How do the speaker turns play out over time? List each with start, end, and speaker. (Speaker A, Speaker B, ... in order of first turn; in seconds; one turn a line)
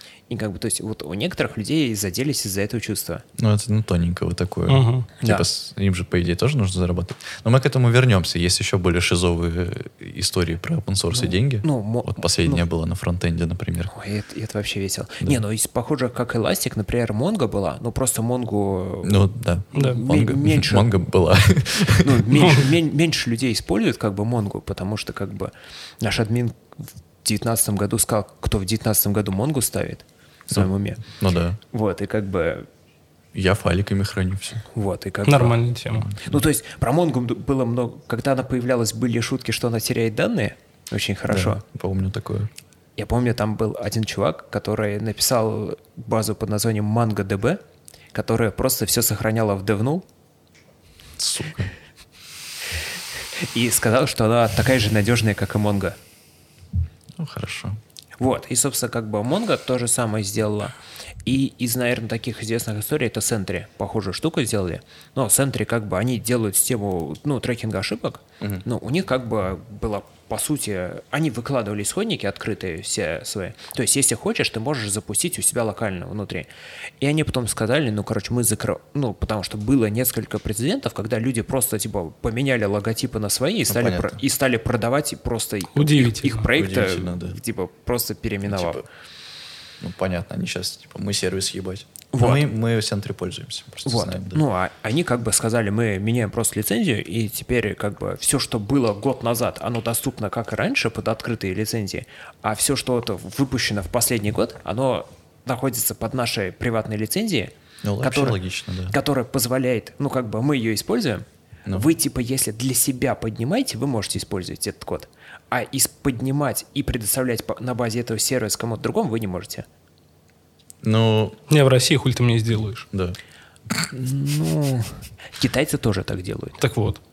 Speaker A: 0.3-3.2
Speaker B: 3.4-13.9
Speaker C: 4.7-5.1
Speaker A: 5.2-5.5
Speaker A: 11.1-12.6
Speaker A: 13.9-20.9
Speaker B: 19.0-22.3
Speaker C: 19.7-20.0
Speaker A: 22.0-26.6
Speaker A: 27.2-31.0
Speaker B: 31.2-31.6
Speaker A: 31.7-32.7
Speaker B: 33.3-34.6
Speaker A: 34.7-35.6
Speaker C: 35.2-36.1
Speaker B: 36.0-36.4
Speaker A: 36.2-41.6
Speaker B: 41.3-42.5
Speaker A: 43.0-47.6
Speaker A: 48.1-50.0
Speaker B: 51.2-51.7
Speaker A: 53.5-56.0
Speaker B: 57.2-57.8
Speaker A: 58.2-76.5
Speaker A: 77.0-88.8
Speaker B: 83.7-84.2
Speaker C: 85.7-86.5
Speaker B: 86.5-87.4
Speaker B: 88.5-88.8
Speaker B: 89.8-94.4
Speaker A: 92.1-92.4
Speaker A: 93.8-108.4
Speaker B: 107.8-109.0
Speaker A: 108.9-119.7
Speaker B: 120.8-121.4
Speaker C: 121.5-122.8
Speaker B: 122.9-123.2
Speaker A: 123.9-126.6
Speaker C: 126.6-127.0